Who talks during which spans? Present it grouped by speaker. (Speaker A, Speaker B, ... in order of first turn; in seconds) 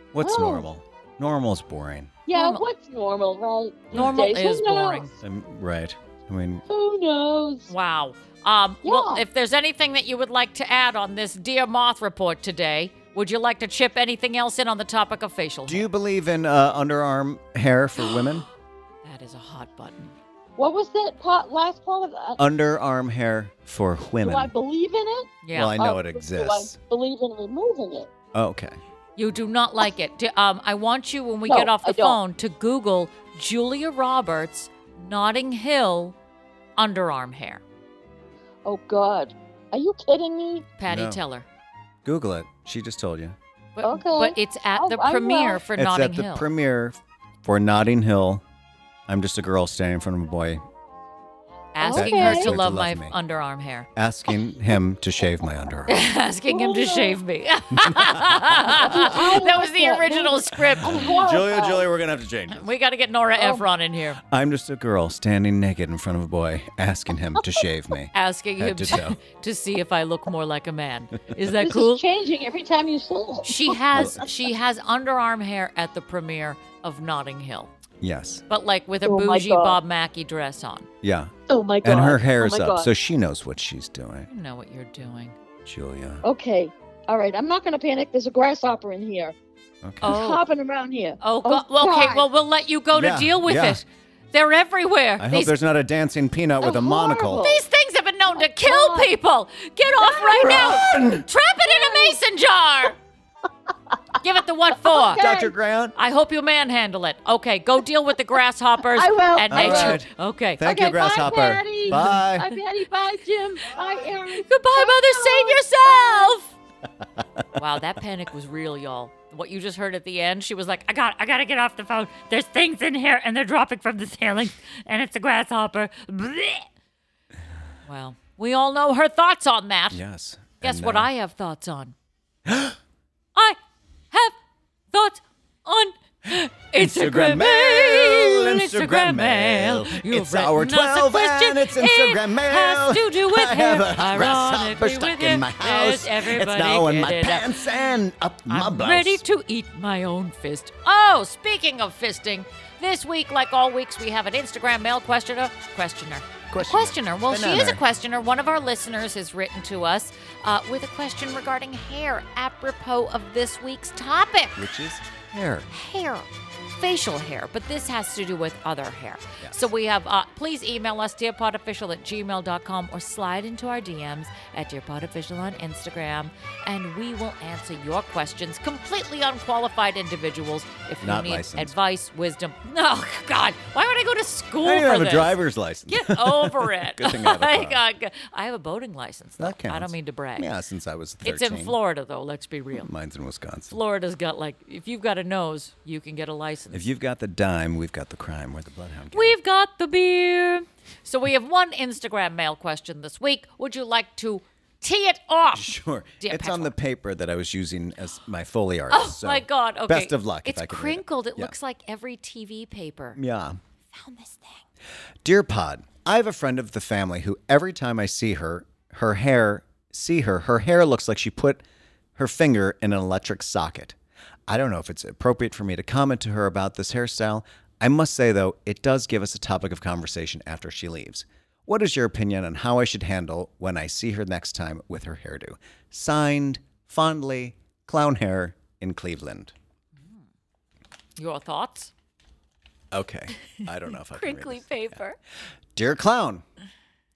Speaker A: 0.1-2.2, 3.9-4.3, 5.2-6.6, 15.7-18.4, 22.4-24.5, 25.5-26.7, 28.3-28.8, 40.9-41.2, 42.0-43.4, 45.7-48.4, 49.1-50.6, 51.9-53.1, 53.9-55.9, 57.8-58.7, 60.8-62.7, 64.2-69.2, 73.9-74.2, 78.0-78.4, 81.0-84.3, 85.6-86.2, 89.8-90.2, 92.9-93.8, 95.2-97.6, 100.2-101.3, 105.0-105.9, 109.5-112.5, 129.9-131.1, 132.5-132.8, 136.8-149.2, 156.5-157.8, 164.6-165.7, 169.4-169.7, 181.0-181.7, 184.6-187.8, 189.4-191.8, 192.7-193.7, 196.7-199.4, 205.5-211.5, 213.2-213.6, 215.2-221.6, 222.2-223.9, 224.5-239.5, 242.9-245.0, 245.7-246.4
Speaker B: 0.2-0.6, 2.2-5.0, 6.7-7.7, 8.8-9.2, 20.6-22.4, 24.2-28.1, 31.5-32.2, 38.6-40.7, 43.8-45.6, 51.8-52.5, 56.5-57.2, 58.6-61.8, 71.5-74.3, 79.0-79.8, 81.5-82.9, 86.2-89.3, 90.0-92.2, 96.6-97.6, 98.3-99.1, 99.9-101.1, 101.6-102.2, 104.8-105.5, 108.9-110.0, 110.6-116.3
Speaker C: 2.3-2.6, 3.9-5.2, 7.7-15.9, 19.0-20.1, 25.4-25.8, 29.2-36.1, 36.8-37.6, 40.8-41.5, 43.8-46.5, 51.7-53.9, 55.9-61.1, 62.5-64.2, 68.1-72.0, 73.4-77.7, 78.5-80.9, 84.3-85.3, 90.0-90.4, 91.2-95.5, 97.4-103.0, 104.2-105.2, 106.0-110.7, 111.9-112.2, 114.3-116.5, 117.5-126.7, 127.8-130.0, 130.6-131.9, 134.1-134.3, 134.9-147.6, 148.5-164.6, 165.7-190.5, 191.2-192.9, 193.7-196.8, 199.1-206.7, 208.9-213.2, 213.9-214.6, 241.2-241.9, 244.1-245.2